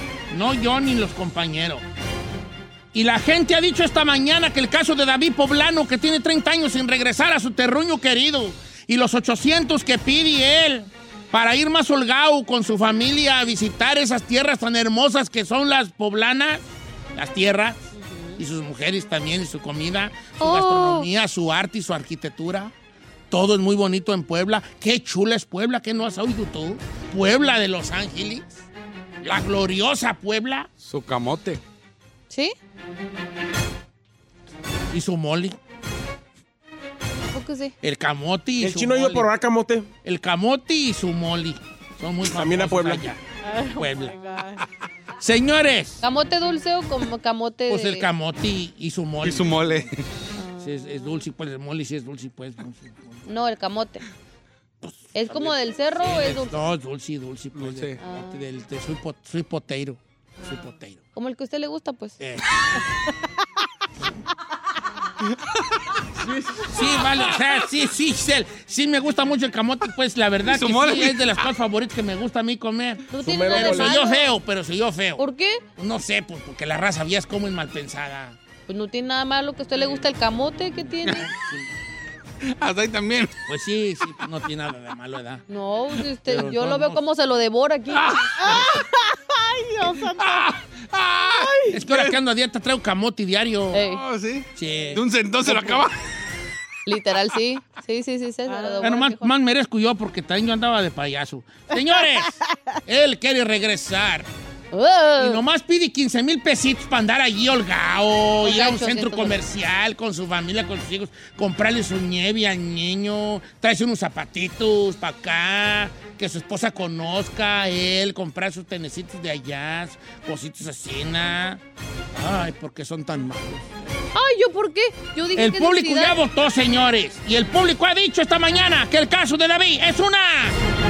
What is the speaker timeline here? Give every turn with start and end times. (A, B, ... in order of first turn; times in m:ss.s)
0:00.3-0:01.8 A
0:02.9-0:16.6 A
0:17.2-0:17.8 A
0:17.9-0:18.4 B
0:18.4-0:22.7 A
0:20.4-0:21.1 B
0:23.3-0:28.6 A
0:29.2-0:30.7 A
0:30.8-0:31.6 C
0:32.3-0:32.6 B
0:34.9-0:35.6 A
0:37.3-0:37.8 B
0:37.8-0:39.3 A
0:38.6-0:39.9 D
0:40.0-0:44.2 A
0:42.3-0:43.1 D
0:43.4-0:44.7 E
0:45.2-0:46.0 A
0:46.0-0:48.1 B
0:47.7-0:49.9 A
0:49.2-0:50.0 C
0:50.4-0:51.2 B
0:50.6-0:53.2 A
0:53.3-0:54.1 B
0:54.8-1:01.0 A
0:55.1-0:56.6 B
0:57.6-0:58.0 C
0:58.0-0:58.4 B
1:01.2-1:02.2 B
1:02.2-1:02.5 A
1:06.6-1:07.4 C
1:06.7-1:15.2 A
1:10.4-1:11.5 C
1:13.1-1:14.3 B
1:13.2-1:14.0 D
1:15.2-1:15.6 B
1:15.8-1:18.4 A
1:18.7-1:21.3 B
1:21.1-1:21.7 A
1:22.4-1:23.3 C
1:23.5-1:25.4 A
1:25.5-1:28.3 B
1:26.3-1:27.0 A
1:28.0-1:28.8 C
1:28.4-1:30.5 E
1:30.2-1:32.2 C
1:31.4-1:31.8 E
1:31.7-1:33.8 A
1:33.7-1:34.0 B
1:33.9-1:36.0 C
1:34.6-1:35.8 A
1:36.9-1:39.3 B
1:38.5-1:39.0 E
1:38.8-1:44.3 A
1:44.7-1:45.4 B
1:45.2-2:01.6 A
1:48.4-1:49.4 B
2:02.1-2:04.0 A
2:04.1-2:06.2 B
2:05.4-2:10.6 A